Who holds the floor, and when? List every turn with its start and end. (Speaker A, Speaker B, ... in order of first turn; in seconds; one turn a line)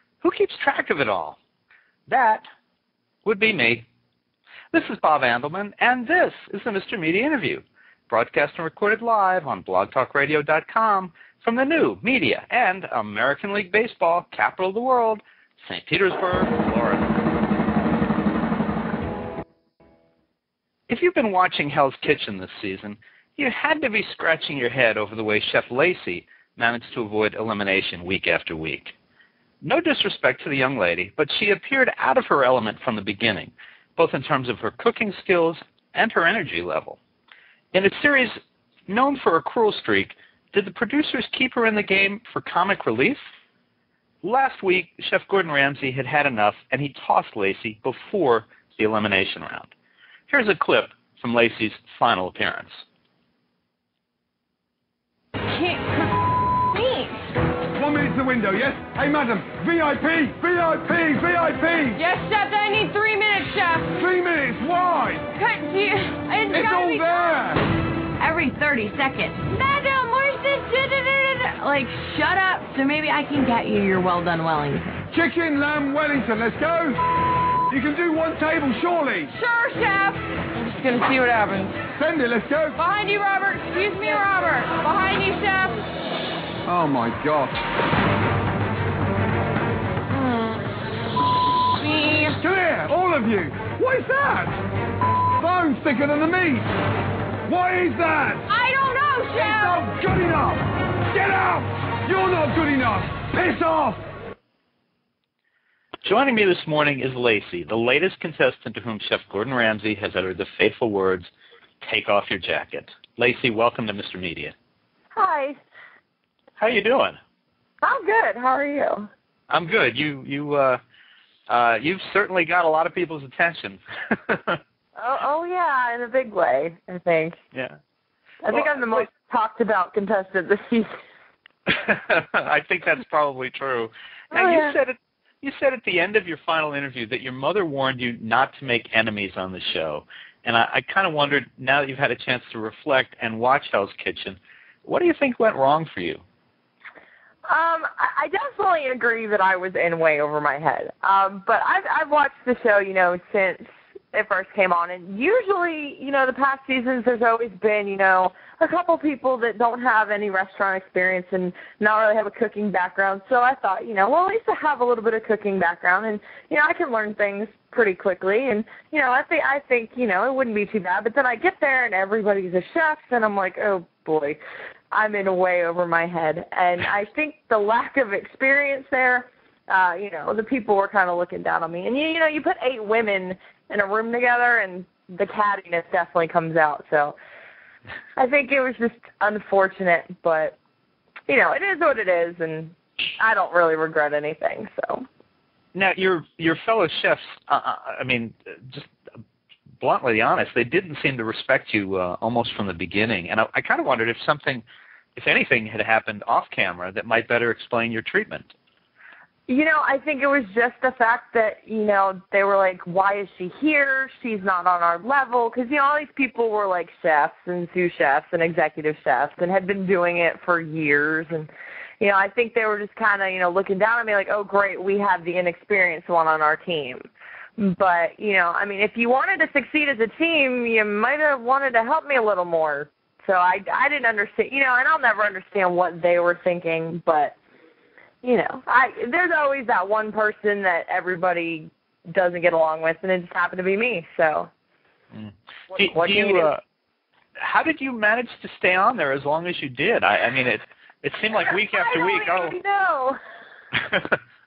Speaker A: 0.2-1.4
Speaker A: 2.1-2.4
Speaker A: 3.2-3.9
Speaker A: 4.7-17.2
Speaker A: 20.9-28.9
Speaker A: 29.6-37.0
Speaker A: 37.7-43.2
Speaker A: 44.2-49.7
Speaker A: 50.3-52.8
Speaker B: 55.5-57.3
Speaker C: 57.7-62.0
Speaker B: 62.0-63.9
Speaker C: 63.9-65.2
Speaker B: 65.3-67.5
Speaker C: 66.5-67.6
Speaker B: 68.2-75.0
Speaker C: 75.1-77.0
Speaker C: 77.7-79.3
Speaker B: 79.3-81.8
Speaker C: 81.9-82.8
Speaker B: 82.8-85.8
Speaker C: 86.6-87.6
Speaker B: 90.1-90.6
Speaker B: 91.8-92.4
Speaker C: 92.4-94.5
Speaker C: 95.4-96.7
Speaker C: 97.5-98.5
Speaker B: 98.5-99.8
Speaker C: 99.3-104.0
Speaker A: 106.0-111.3
Speaker A: 111.8-114.5
Speaker D: 115.2-115.6
Speaker A: 116.6-117.2
Speaker D: 117.8-119.1
Speaker A: 119.5-120.8
Speaker A: 121.5-124.6
Speaker D: 125.0-127.4
Speaker D: 128.4-130.9
Speaker A: 128.5-129.1
Speaker A: 131.7-146.2
Speaker D: 134.3-134.8
Speaker D: 147.5-174.4
Speaker D: 174.9-187.2
Speaker D: 188.2-190.6
Speaker D: 191.3-195.1
Speaker A: 195.7-198.9
Speaker A: 199.8-204.6
Speaker A: 205.1-208.5
Speaker D: 209.5-227.1
Speaker D: 227.6-237.3
Speaker D: 238.2-244.5
Speaker A: 245.1-246.6
Speaker D: 245.7-246.5
Speaker A: 247.4-252.6
Speaker D: 251.5-253.2
Speaker A: 253.9-254.2